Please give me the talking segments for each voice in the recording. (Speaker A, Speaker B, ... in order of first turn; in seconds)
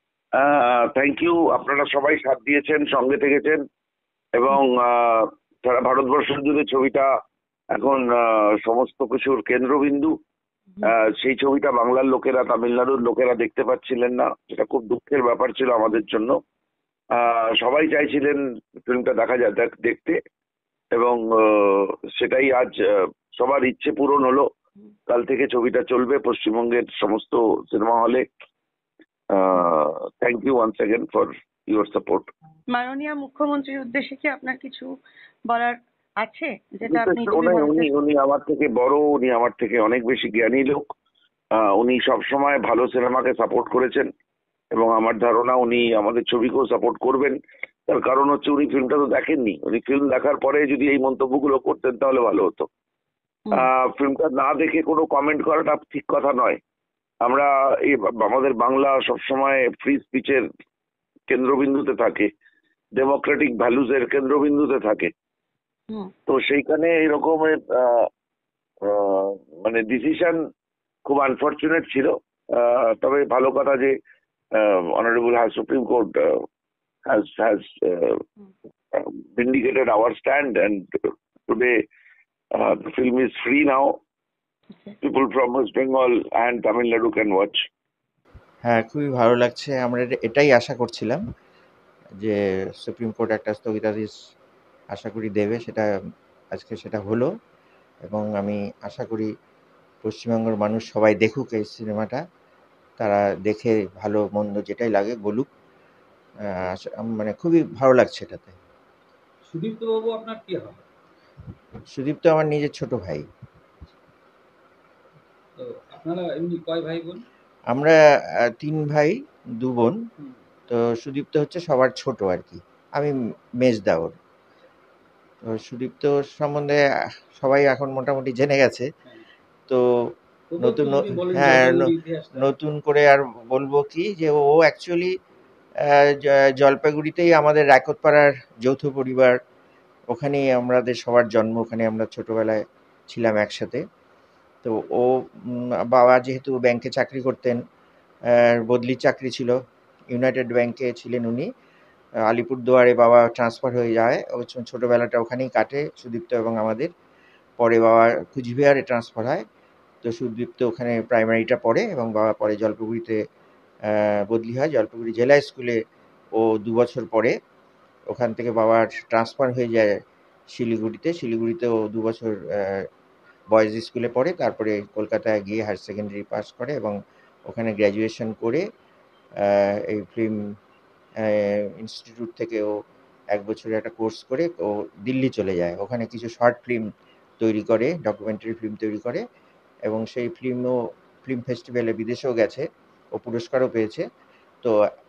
Speaker A: 0.4-3.6, 4.3-7.1, 7.7-10.1, 10.8-16.4, 17.1-20.2, 20.9-24.5, 25.1-28.2, 29.3-32.3, 36.8-40.8, 41.6-44.1, 44.7-52.7, 53.5-56.6, 57.2-60.4, 61.3-62.3, 63.0-65.1, 66.3-68.1, 68.8-70.4, 71.0-73.9, 74.5-76.4, 77.1-78.2, 78.9-80.9, 81.5-81.7, 82.5-84.0, 85.0-87.6
Speaker B: 32.7-34.9, 35.5-37.9
Speaker C: 88.6-91.2, 92.2-94.1, 94.9-95.9, 96.5-97.3, 98.1-99.3, 100.0-102.2, 103.0-105.5, 106.5-108.5, 111.9-113.2, 118.6-120.0, 120.7-124.1, 125.5-126.8, 127.3-128.8, 130.6-131.8, 132.3-135.1, 135.8-139.3, 140.1-143.8, 144.6-147.6, 148.3-149.6, 150.1-151.5, 152.3-156.9, 157.6-159.4, 160.0-163.2, 163.8-165.8, 166.3-167.3, 168.1-169.9, 170.5-172.8, 173.5-176.9, 177.5-178.6, 179.4-180.3, 181.2-182.7, 183.3-186.8, 187.4-189.2, 189.8-194.0
Speaker D: 109.4-110.8, 115.6-117.2, 130.5-132.5